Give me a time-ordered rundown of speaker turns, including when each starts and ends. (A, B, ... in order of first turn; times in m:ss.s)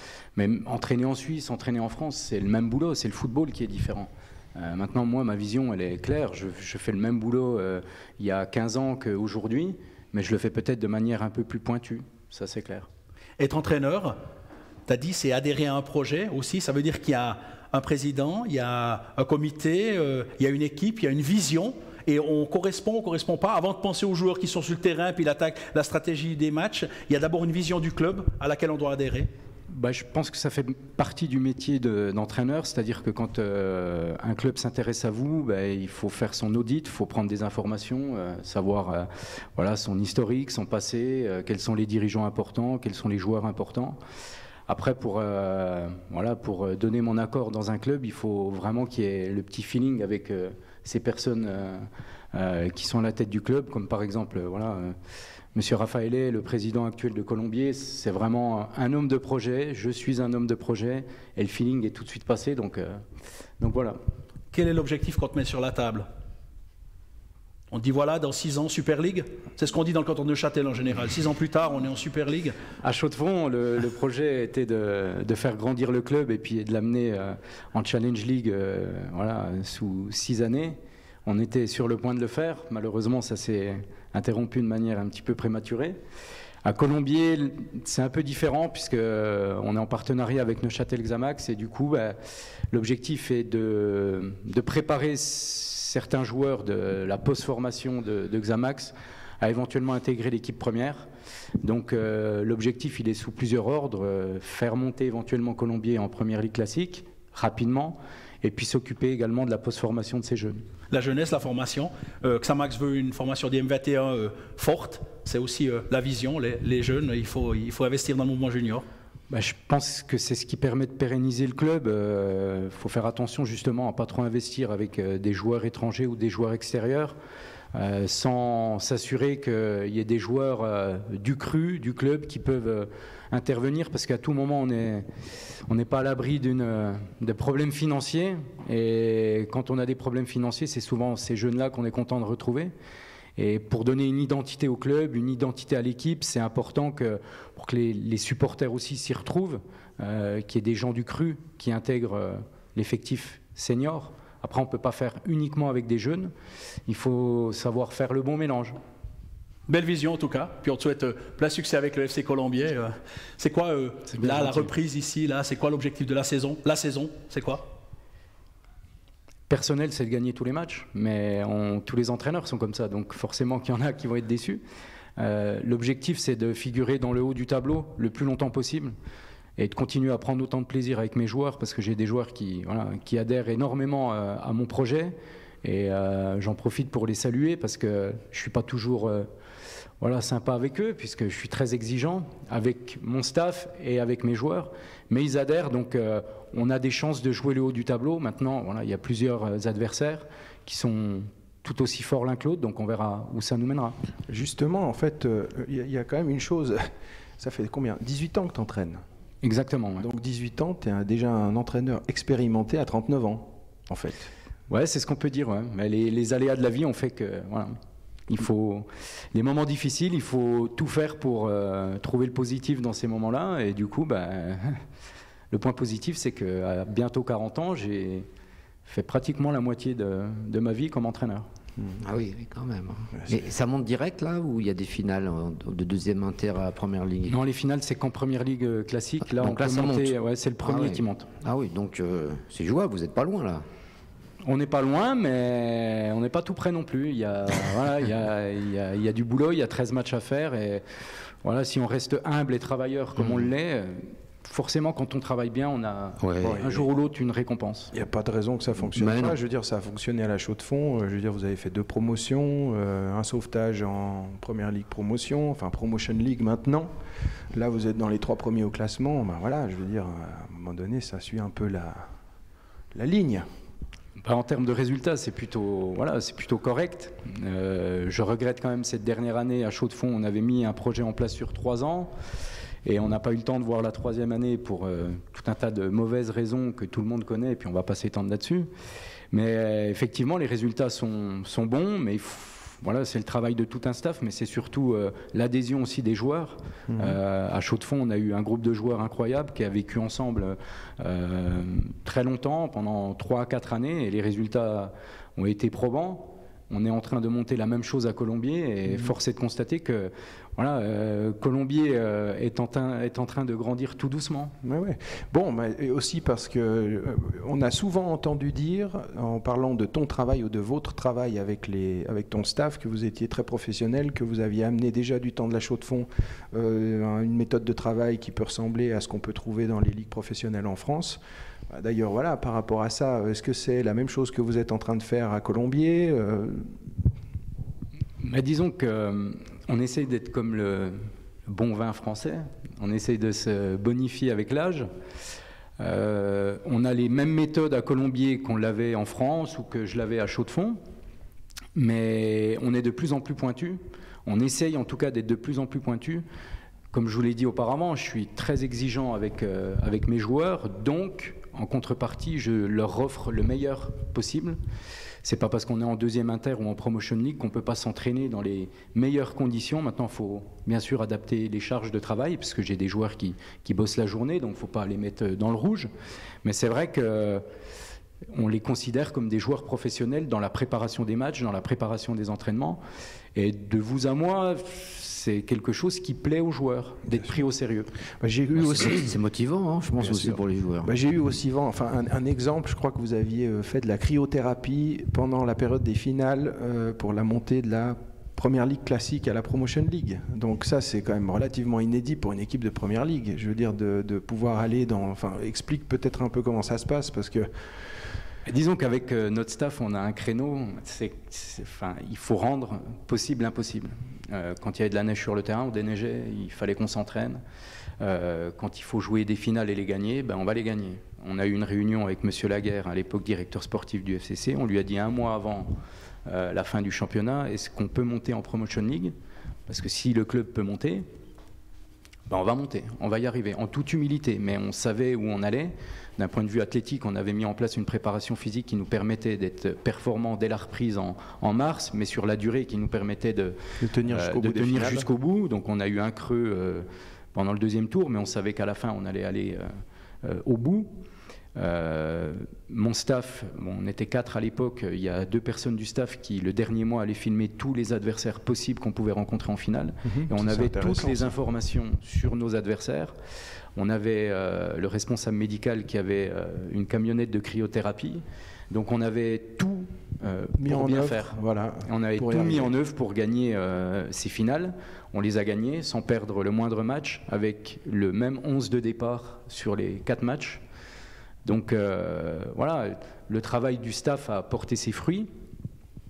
0:00.4-0:12.9 A
0:13.4-0:14.2 B
0:14.9-0:29.3 B
0:29.7-0:44.0 A
0:44.7-0:55.0 A
0:55.5-1:03.0 A
1:03.6-1:04.0 A
1:04.5-1:06.1 B
1:07.7-1:12.6 B
1:12.8-1:26.0 A
1:26.6-1:32.2 A
1:32.7-1:41.1 A
1:41.6-1:50.6 A
1:50.9-1:58.8 B
1:59.3-2:07.2 A
2:07.7-2:15.1 A
2:15.7-2:22.7 A
2:23.4-2:36.3 A
2:36.9-2:38.8 A
2:39.7-2:47.6 B
2:44.1-2:44.7 A
2:49.5-2:54.6 A
2:55.2-2:59.0 A
2:59.6-3:09.3 A
3:10.0-3:24.0 A
3:24.3-3:26.8 C
3:27.4-3:29.0 C
3:29.4-3:30.1 A
3:30.0-3:34.3 C
3:34.7-3:44.8 A
3:45.5-3:48.3 A
3:48.9-3:51.5 A
3:52.0-3:57.4 D
3:53.2-3:53.5 C
3:57.3-4:01.3 A
3:59.3-4:03.6 D
4:04.4-4:10.8 A
4:11.4-4:17.9 A
4:13.2-4:13.5 D
4:16.2-4:16.6 D
4:16.4-4:16.9 C
4:17.9-4:26.9 C
4:18.9-4:19.4 D
4:27.5-4:32.1 C
4:32.9-4:33.5 C
4:34.2-4:42.1 A
4:42.8-4:48.7 A
4:49.3-5:14.5 A
4:56.9-4:57.2 C
5:14.6-5:31.2 C
5:31.7-5:36.8 C
5:38.2-5:44.9 A
5:45.8-5:50.8 A
5:51.8-5:56.2 A
5:56.9-6:04.6 A
6:05.2-6:15.9 A
6:16.4-6:17.4 A
6:18.3-6:22.8 A
6:23.4-6:27.9 A
6:28.2-6:29.2 C
6:28.6-6:30.9 D
6:30.0-6:47.5 C
6:48.5-6:57.4 A
6:58.0-7:05.7 A
7:06.3-7:09.1 A
7:09.7-7:11.1 A
7:12.3-7:23.6 A
7:23.8-7:25.1 C
7:24.1-7:30.9 A
7:31.6-7:43.1 A
7:40.1-7:41.4 C
7:43.8-8:00.6 A
7:50.6-7:52.7 C
8:01.4-8:05.3 A